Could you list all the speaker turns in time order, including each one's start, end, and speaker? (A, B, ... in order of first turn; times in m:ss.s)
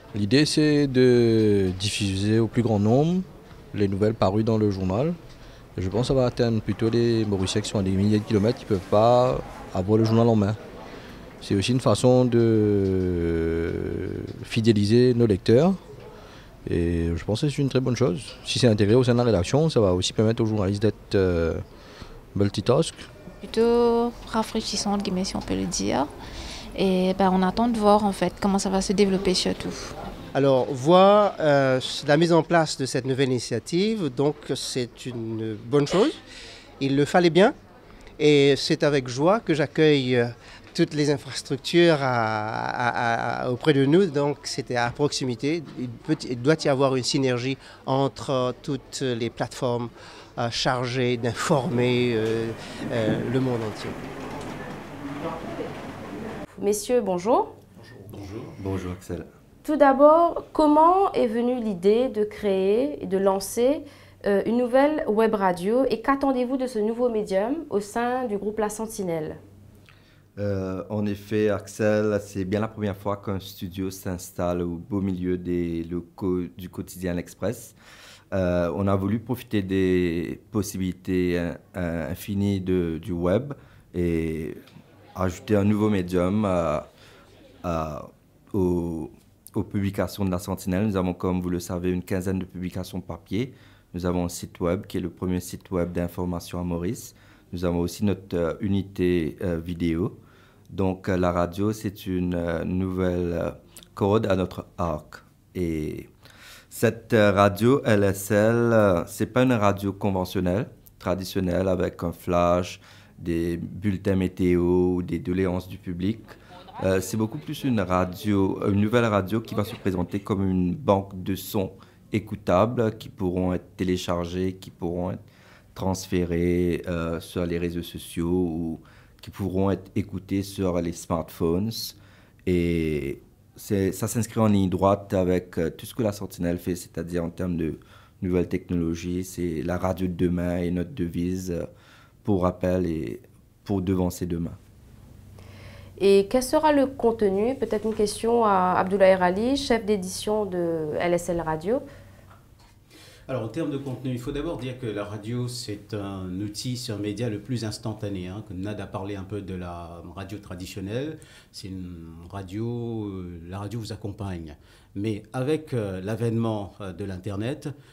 0:00.1-0:05.2 A
0:05.8-0:10.6 A
0:11.4-0:15.8 A
0:16.6-0:21.6 A
0:22.3-0:23.1 A
0:23.4-0:26.1 B
0:26.8-0:29.9 B
0:30.4-0:36.2 C
0:36.8-0:37.6 C
0:38.2-0:54.0 C
0:56.6-0:57.5 D
0:58.1-0:59.3 E
0:59.6-1:09.4 D
1:10.4-1:17.8 E
1:18.3-1:24.6 E
1:25.2-1:26.9 E
1:27.6-1:40.2 E
1:40.7-1:46.1 E
1:46.7-2:05.2 E
2:05.7-2:21.7 E
2:22.2-2:24.6 E
2:26.0-2:31.8 D
2:33.3-2:47.7 F